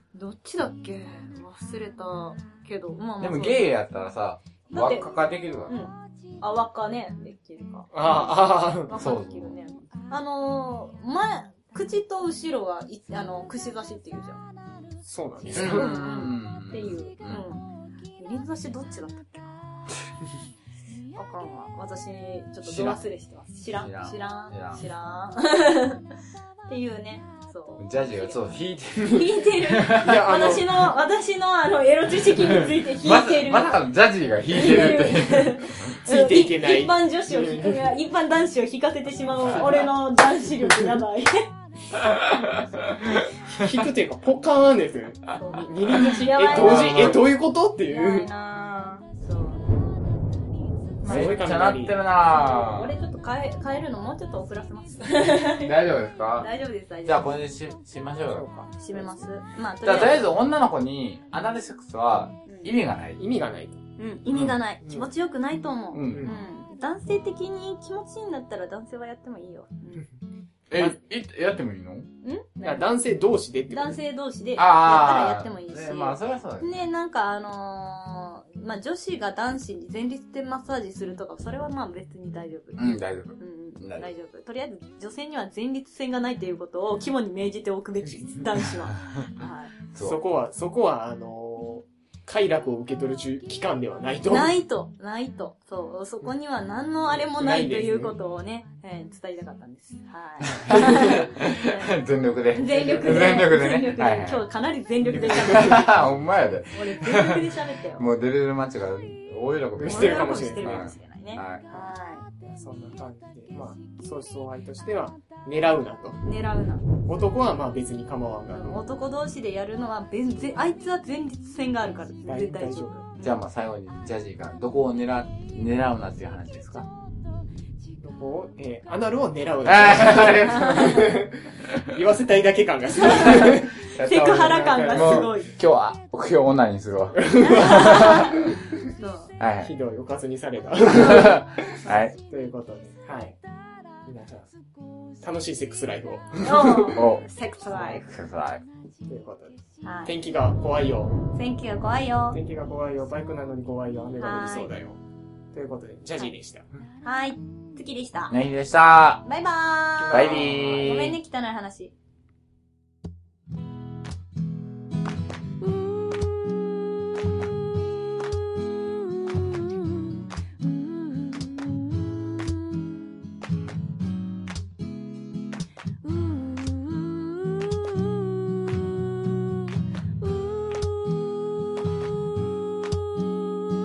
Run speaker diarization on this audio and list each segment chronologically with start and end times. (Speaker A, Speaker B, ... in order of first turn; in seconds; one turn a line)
Speaker A: 0.1-3.7
Speaker B: 3.2-5.9
Speaker A: 4.7-5.2
Speaker A: 5.7-14.4
Speaker C: 7.9-8.9
Speaker B: 8.9-9.6
Speaker C: 15.0-16.1
Speaker A: 15.5-19.8
Speaker B: 15.5-17.4
Speaker A: 21.1-26.0
Speaker B: 22.6-23.0
Speaker B: 23.7-24.8
Speaker A: 26.7-28.4
Speaker B: 27.8-30.4
Speaker A: 29.0-33.8
Speaker C: 30.0-30.9
Speaker B: 33.0-35.7
Speaker A: 34.5-41.5
Speaker C: 34.6-35.0
Speaker C: 35.9-37.9
Speaker C: 39.5-39.9
Speaker B: 42.0-42.4
Speaker C: 43.5-48.3
Speaker A: 45.3-47.2
Speaker B: 46.4-47.2
Speaker A: 47.9-49.6
Speaker C: 51.0-52.0
Speaker B: 51.0-53.0
Speaker A: 51.1-51.4
Speaker A: 52.2-55.8
Speaker B: 55.5-56.5
Speaker A: 56.3-57.3
Speaker B: 57.0-58.7
Speaker C: 58.3-59.3
Speaker A: 58.8-60.3
Speaker B: 59.8-63.2
Speaker A: 62.5-62.7
Speaker C: 63.2-63.8
Speaker A: 64.0-70.0
Speaker B: 64.3-64.6
Speaker C: 64.8-65.1
Speaker B: 65.9-66.3
Speaker C: 66.0-66.4
Speaker B: 70.7-72.1
Speaker A: 72.2-72.9
Speaker C: 72.6-74.0
Speaker A: 73.7-89.7
Speaker B: 74.5-76.8
Speaker B: 82.7-84.1
Speaker B: 89.9-90.2
Speaker C: 90.0-94.6
Speaker A: 94.3-101.9
Speaker C: 97.2-98.2
Speaker B: 100.5-104.4
Speaker C: 100.7-101.2
Speaker A: 102.5-105.9
Speaker C: 102.8-103.5
Speaker C: 105.0-105.8
Speaker B: 105.2-111.7
Speaker A: 106.7-108.0
Speaker C: 109.8-110.9
Speaker A: 109.8-112.2
Speaker C: 112.4-116.2
Speaker A: 116.2-116.9
Speaker C: 117.0-118.8
Speaker A: 118.5-123.4
Speaker C: 122.2-122.9
Speaker B: 123.2-126.9
Speaker C: 128.0-133.7
Speaker B: 129.6-131.1
Speaker A: 133.0-135.5
Speaker B: 133.9-138.4
Speaker C: 134.3-135.4
Speaker C: 137.2-138.6
Speaker A: 137.4-139.3
Speaker B: 139.4-139.7
Speaker C: 139.6-141.4
Speaker B: 140.9-142.2
Speaker C: 142.2-143.4
Speaker C: 144.0-144.5
Speaker C: 145.2-147.0
Speaker A: 146.4-148.1
Speaker B: 146.9-147.2
Speaker C: 147.6-148.0
Speaker B: 147.9-148.6
Speaker C: 149.1-151.1
Speaker A: 149.8-150.1
Speaker A: 151.3-152.4
Speaker C: 152.3-155.0
Speaker A: 154.2-154.7
Speaker C: 155.5-156.7
Speaker A: 157.0-158.3
Speaker B: 158.3-159.2
Speaker A: 159.2-161.9
Speaker C: 160.0-160.9
Speaker B: 160.1-161.2
Speaker A: 180.2-181.1